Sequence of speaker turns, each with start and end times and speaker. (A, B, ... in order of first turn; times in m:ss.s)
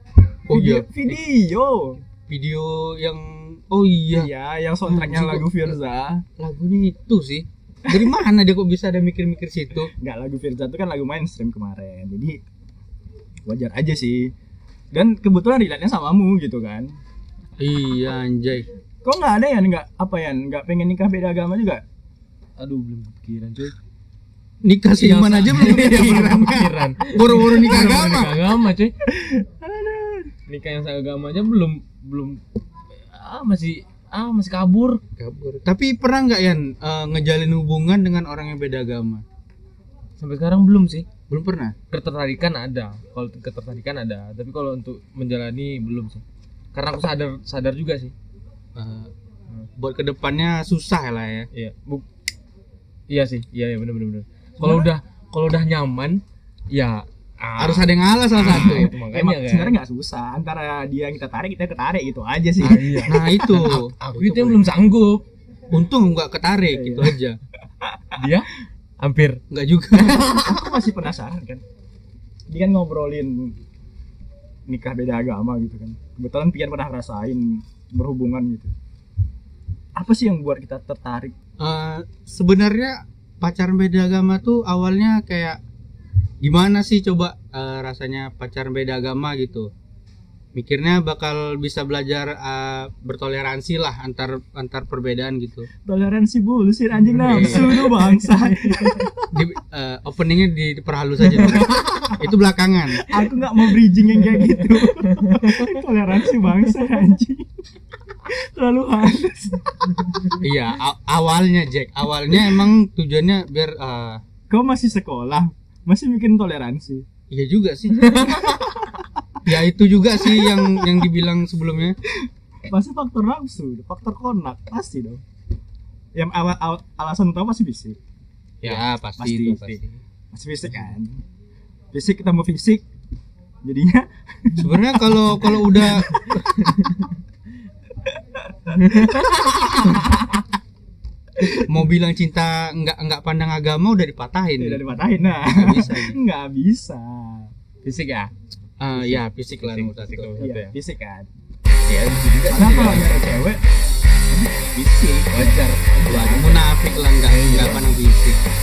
0:00.5-0:01.2 A
0:00.5-0:02.0 B
0:02.3-0:04.3 A
0:04.1-0:06.2 B
0:04.8-0:05.7 A
0:06.4-0:09.9 A
0:09.9-0:12.4 B
0:13.4-0:14.3 B
0:14.9-0:16.9 B
0:17.6-0:18.6 A
0:19.0-0:21.8 B
0:22.6-0:23.7 C
0:24.6-0:28.3 A
0:24.9-0:28.9 C
0:29.0-0:30.3 B
0:30.5-0:32.4 C
0:33.1-0:35.0 C
0:35.2-0:39.2 A
0:40.2-0:41.0 C
0:41.3-0:41.8 A
0:41.9-0:46.2 C
0:46.7-0:48.1 C
0:48.7-0:49.1 A
0:49.8-0:51.5 A
0:51.5-0:52.0 C
0:53.1-0:59.8 C
0:54.6-0:54.9 B
0:57.6-0:58.9 A
0:58.8-1:03.2 B
1:02.6-1:05.2 C
1:03.0-1:04.6 A
1:05.7-1:07.4 A
1:06.7-1:07.2 B
1:08.2-1:09.4 C
1:09.5-1:10.2 A
1:09.9-1:10.6 C
1:10.3-1:11.6 B
1:12.5-1:13.5 B
1:14.7-1:18.7 B
1:20.0-1:21.3 B
1:21.6-1:25.6 A
1:26.4-1:29.7 A
1:30.5-1:35.7 A
1:35.8-1:39.3 B
1:37.2-1:37.9 A
1:37.3-1:38.2 C
1:39.3-1:43.1 A
1:41.3-1:42.1 C
1:43.0-1:47.5 B
1:44.5-1:45.7 C
1:48.2-1:50.3 B
1:50.4-1:54.2 A
1:54.5-1:57.0 B
1:57.3-1:58.3 A
1:58.1-1:58.4 C
1:58.1-1:59.1 B
1:59.4-2:02.0 A
2:00.2-2:01.0 B
2:02.7-2:05.2 B
2:06.1-2:08.0 B
2:08.6-2:10.0 A
2:09.2-2:09.8 B
2:10.3-2:11.2 B
2:11.9-2:12.8 B
2:13.6-2:16.7 B
2:14.6-2:16.4 A
2:15.9-2:16.9 C
2:18.0-2:20.3 B
2:18.8-2:19.9 C
2:21.4-2:24.8 A
2:24.6-2:27.5 B
2:25.5-2:26.2 A
2:27.8-2:28.3 C
2:28.8-2:30.4 A
2:28.9-2:30.7 C
2:30.4-2:31.3 B
2:31.8-2:33.4 C
2:32.5-2:33.6 B
2:34.3-2:36.6 B
2:35.3-2:36.5 C
2:36.1-2:38.4 A
2:37.2-2:37.9 C